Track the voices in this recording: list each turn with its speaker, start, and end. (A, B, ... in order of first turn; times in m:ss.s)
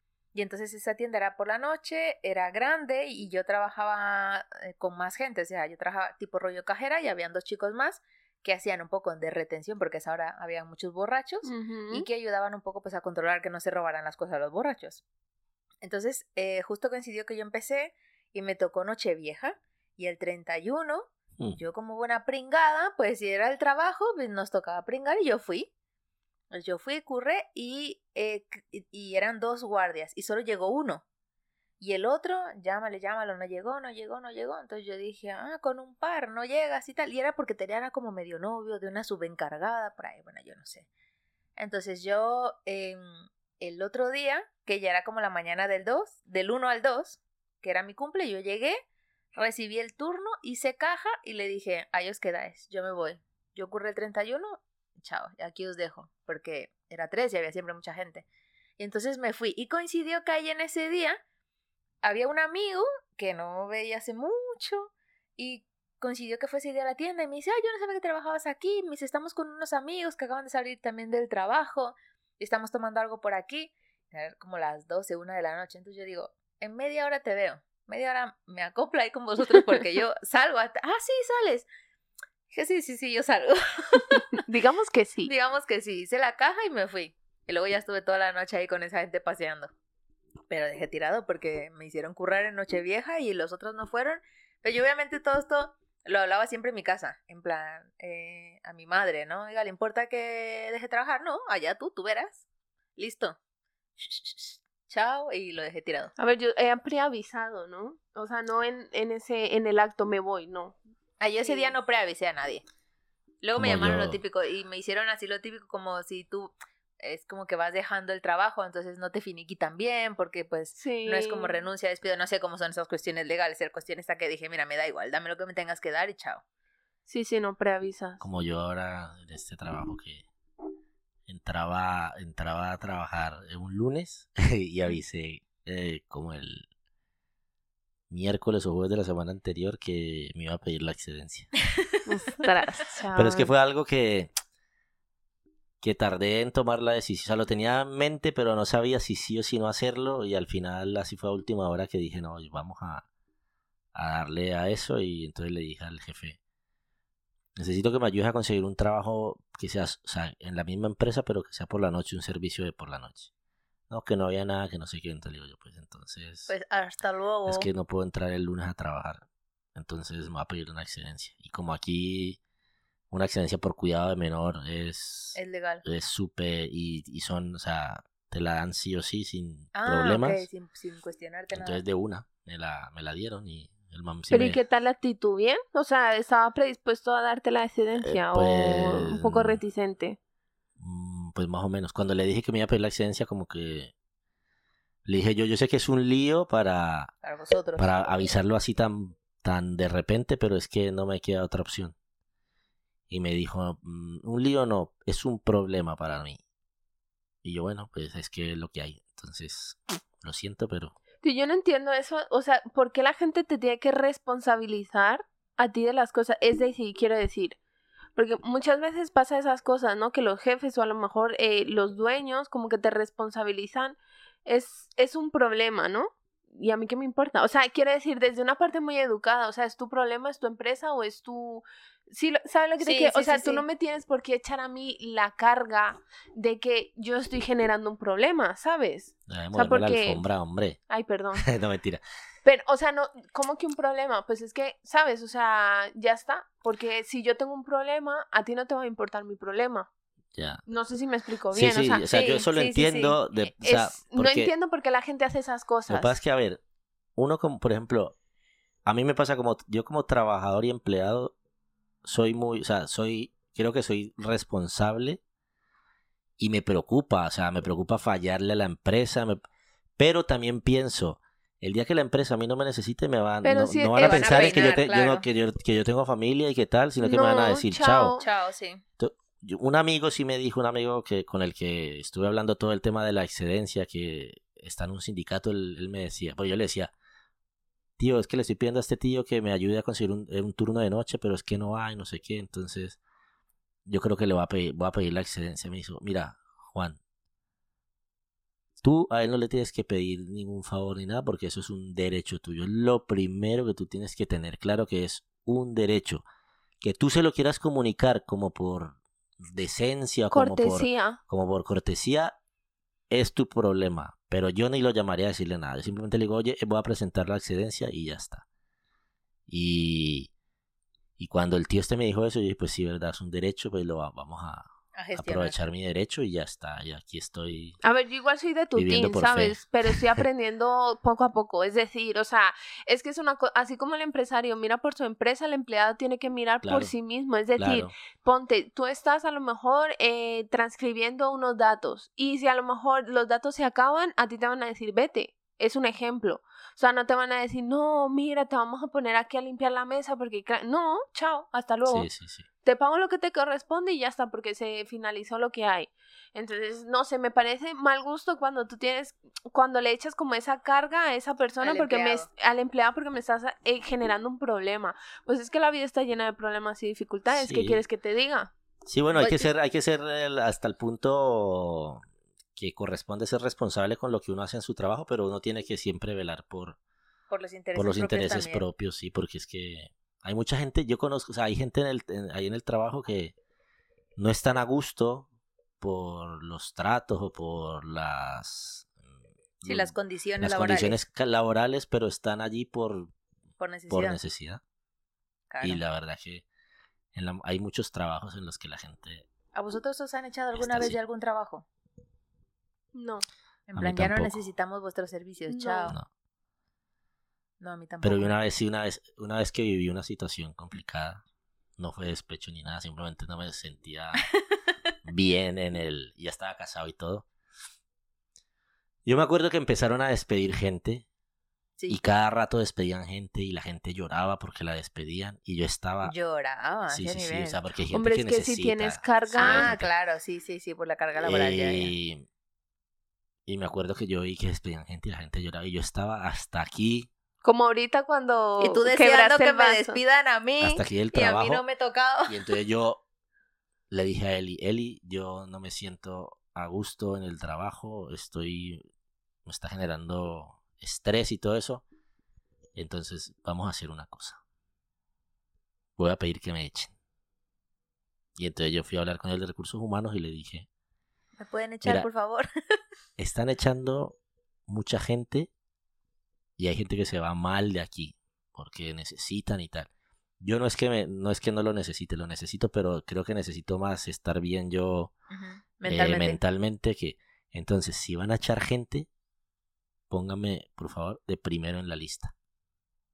0:00.3-0:15.0 A
0:11.4-0:12.1 B
0:15.8-0:25.7 A
0:26.5-0:31.0 A
0:31.8-0:40.9 A
0:41.6-0:48.8 A
0:49.4-0:58.3 A
0:58.8-1:01.2 A
1:02.0-1:21.7 A
1:22.5-1:24.3 A
1:24.4-1:25.3 B
1:25.2-1:29.7 A
1:30.5-1:42.4 A
1:43.0-1:43.4 A
1:44.0-1:46.1 A
1:46.2-1:50.8 B
1:51.2-1:52.6 A
1:51.4-1:51.7 B
1:53.4-2:06.4 A
1:53.6-1:54.2 C
2:00.8-2:01.6 B
2:07.1-2:08.2 B
2:08.2-2:10.3 C
2:11.3-2:16.7 C
2:18.1-2:21.5 C
2:22.0-2:23.5 B
2:23.2-2:24.3 C
2:25.8-2:33.0 C
2:33.9-2:36.4 C
2:37.6-2:43.3 C
2:43.9-2:46.5 C
2:46.5-2:47.7 A
2:47.5-2:52.4 C
2:53.1-3:00.5 C
2:55.4-2:55.8 A
2:59.7-3:01.8 A
3:01.5-3:04.6 C
3:04.3-3:10.2 B
3:08.0-3:09.6 C
3:10.8-3:13.9 C
3:15.0-3:17.1 C
3:17.2-3:18.2 A
3:17.8-3:22.0 C
3:23.1-3:26.4 C
3:27.4-3:31.0 C
3:31.2-3:37.6 B
3:38.2-4:00.2 B
3:52.8-3:53.6 A
3:59.3-4:00.8 C
4:00.9-4:01.5 B
4:01.4-4:02.0 C
4:02.4-4:09.9 B
4:10.4-4:10.6 C
4:10.7-4:12.1 B
4:11.5-4:14.5 C
4:12.1-4:13.2 A
4:13.6-4:16.2 B
4:15.9-4:16.6 C
4:17.2-4:18.2 C
4:18.8-4:21.3 C
4:22.0-4:25.2 C
4:26.4-4:29.4 C
4:30.0-4:38.2 C
4:33.4-4:34.7 B
4:34.0-4:35.2 A
4:37.0-4:38.2 B
4:38.2-4:38.8 A
4:39.0-4:46.9 C
4:48.0-4:53.0 C
4:53.9-4:57.0 C
4:58.8-5:06.2 C
5:06.8-5:12.4 C
5:10.3-5:11.2 B
5:13.1-5:18.4 C
5:19.5-5:20.3 C
5:21.2-5:27.8 C
5:25.0-5:25.6 A
5:27.8-5:52.1 B
5:28.8-5:30.2 C
5:36.6-5:36.9 C
5:37.6-5:37.9 C
5:51.9-5:52.5 C
5:52.6-6:08.5 B
6:01.6-6:02.3 A
6:07.3-6:07.8 C
6:08.8-6:12.0 C
6:09.2-6:09.5 A
6:12.6-6:16.8 C
6:17.3-6:18.6 A
6:17.8-6:23.4 C
6:24.2-6:25.3 C
6:25.8-6:29.0 C
6:29.6-6:33.1 C
6:29.6-6:31.0 A
6:33.6-6:34.2 A
6:33.9-6:34.6 C
6:35.5-6:35.8 A
6:35.6-6:36.4 C
6:37.1-6:39.3 C
6:39.5-6:41.7 A
6:40.5-6:41.0 C
6:42.9-6:43.2 B
6:43.7-6:46.0 A
6:43.8-6:44.4 C
6:45.5-6:46.0 B
6:47.6-6:48.4 A
6:48.0-6:51.2 C
6:51.8-6:54.3 C
6:55.0-6:57.3 C
6:59.1-7:01.0 C
7:01.9-7:06.2 C
7:06.0-7:07.6 A
7:06.9-7:09.9 C
7:07.9-7:09.8 B
7:09.4-7:11.9 A
7:11.2-7:12.2 C
7:13.5-7:17.1 C
7:17.4-7:20.0 B
7:18.6-7:22.4 A
7:20.6-7:21.6 C
7:22.3-7:23.0 C
7:23.9-7:28.8 C
7:29.5-7:31.8 C
7:32.8-7:34.4 C
7:36.0-7:36.9 C
7:38.4-7:40.7 C
7:41.4-7:42.5 A
7:43.2-7:44.2 C
7:44.7-7:45.5 C
7:46.6-7:49.9 C
7:50.4-7:55.1 C
7:55.3-7:56.4 A
7:55.9-7:59.1 C
8:00.1-8:02.3 C